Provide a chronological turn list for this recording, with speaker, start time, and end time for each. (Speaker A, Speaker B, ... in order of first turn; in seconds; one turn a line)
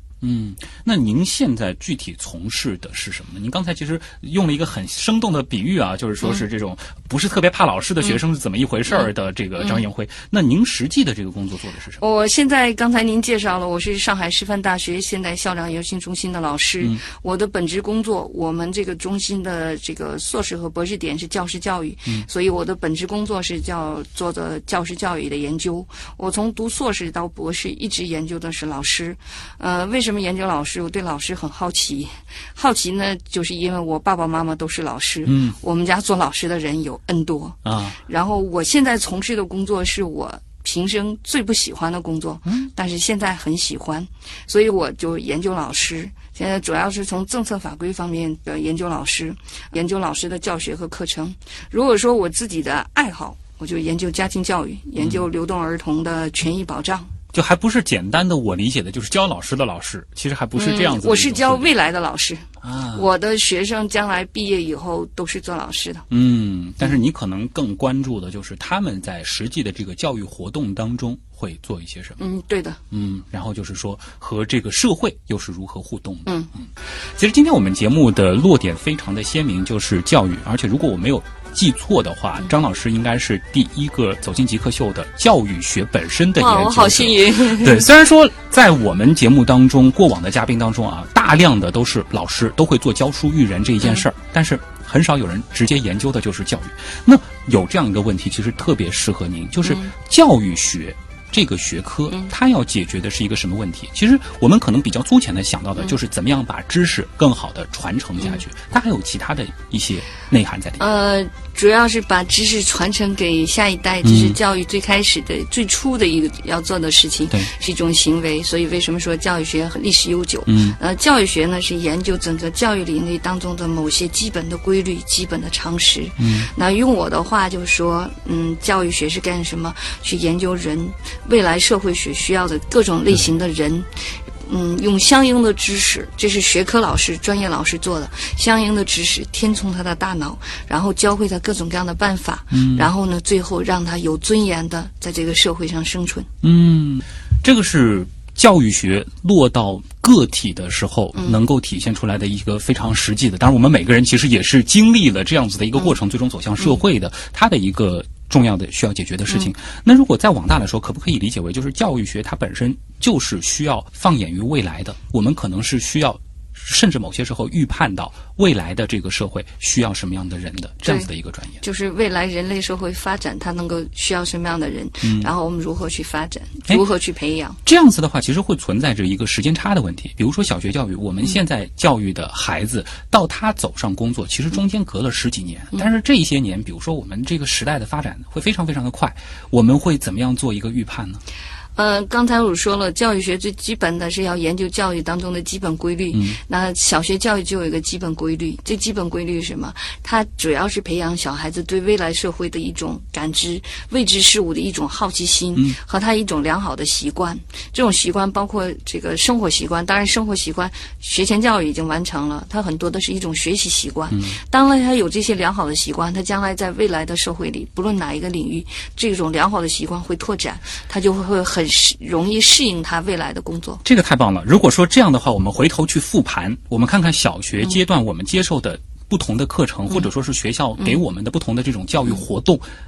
Speaker A: 0.2-12.0
Speaker B: 12.0-57.1
Speaker A: 35.2-35.5
Speaker A: 37.6-38.0
Speaker A: 57.3-61.7
Speaker B: 60.5-66.0
Speaker A: 62.6-63.0
Speaker A: 66.1-72.2
Speaker B: 72.2-72.8
Speaker A: 72.9-110.8
Speaker B: 76.2-76.5
Speaker B: 86.4-87.8
Speaker B: 99.6-99.9
Speaker B: 110.8-146.3
Speaker A: 114.0-114.4
Speaker A: 120.5-120.8
Speaker A: 126.2-126.5
Speaker A: 142.5-142.9
Speaker A: 146.4-171.6
Speaker B: 171.6-177.6
Speaker A: 175.0-175.3
Speaker A: 177.6-191.2
Speaker B: 191.8-223.8
Speaker A: 196.1-196.4
Speaker A: 214.1-214.4
Speaker A: 223.8-232.7